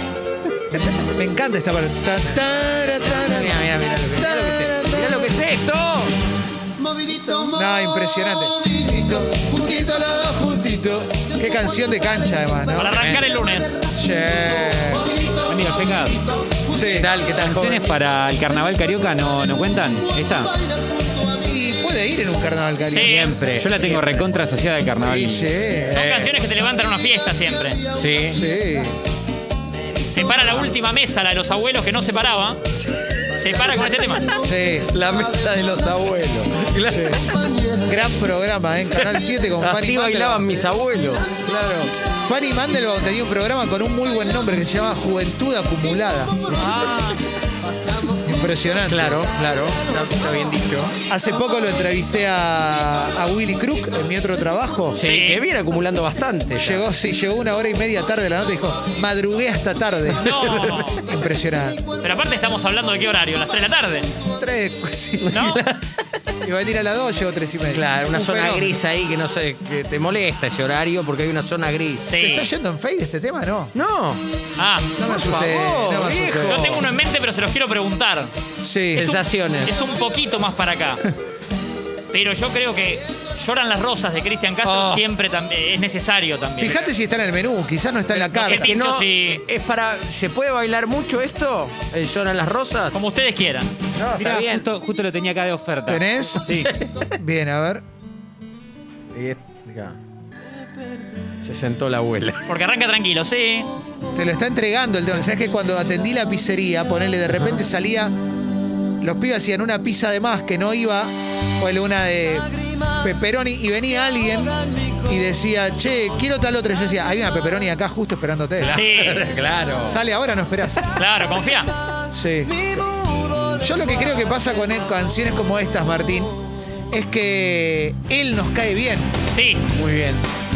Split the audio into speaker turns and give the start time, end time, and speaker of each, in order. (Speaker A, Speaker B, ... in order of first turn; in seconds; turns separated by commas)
Speaker A: 0.9-3.6, Speaker B: 3.1-6.1, Speaker A: 4.2-5.3, Speaker A: 7.4-13.2, Speaker C: 12.8-13.8, Speaker A: 13.9-15.1, Speaker D: 15.4-16.2, Speaker A: 16.7-17.1, Speaker B: 16.8-17.9, Speaker D: 17.3-20.5, Speaker A: 21.4-23.3, Speaker C: 22.9-23.4, Speaker D: 23.0-25.5, Speaker A: 25.1-26.2, Speaker C: 25.9-27.8, Speaker B: 25.9-26.3, Speaker B: 28.0-28.4, Speaker A: 28.3-29.0, Speaker C: 30.1-32.6, Speaker C: 33.4-34.3, Speaker A: 34.4-34.9, Speaker B: 34.9-37.3, Speaker A: 36.9-37.3, Speaker A: 37.8-40.5, Speaker B: 39.0-41.9, Speaker A: 42.1-46.5, Speaker C: 46.6-47.2, Speaker A: 48.2-49.3, Speaker B: 48.9-50.9, Speaker A: 51.1-55.0, Speaker B: 55.0-56.8, Speaker C: 55.0-55.4, Speaker A: 56.5-61.8, Speaker C: 60.2-61.0, Speaker C: 62.0-64.1, Speaker A: 64.4-65.4, Speaker B: 65.2-65.8, Speaker C: 65.3-65.6, Speaker A: 66.4-68.8, Speaker B: 67.7-72.0, Speaker C: 72.0-72.5, Speaker A: 72.1-73.7, Speaker B: 73.7-74.2, Speaker C: 74.6-74.9, Speaker A: 75.0-76.7, Speaker B: 75.0-76.8, Speaker C: 76.4-78.3, Speaker A: 78.6-79.1, Speaker B: 78.9-79.7, Speaker C: 79.0-81.0, Speaker C: 82.1-86.9, Speaker B: 84.6-85.0, Speaker A: 86.6-88.7, Speaker B: 88.2-93.0, Speaker C: 88.3-89.4, Speaker C: 92.9-93.7, Speaker B: 94.0-94.7, Speaker D: 94.2-96.0, Speaker A: 95.9-97.8, Speaker B: 96.5-97.0, Speaker B: 99.1-100.0, Speaker B: 101.4-102.5, Speaker C: 102.5-103.7, Speaker A: 104.1-108.2, Speaker A: 109.0-112.5, Speaker A: 113.0-118.8, Speaker B: 118.6-120.0, Speaker C: 118.7-119.4, Speaker A: 119.8-120.8, Speaker C: 120.9-121.7, Speaker A: 122.1-122.6, Speaker A: 123.6-129.1, Speaker C: 129.3-129.6, Speaker B: 129.7-130.2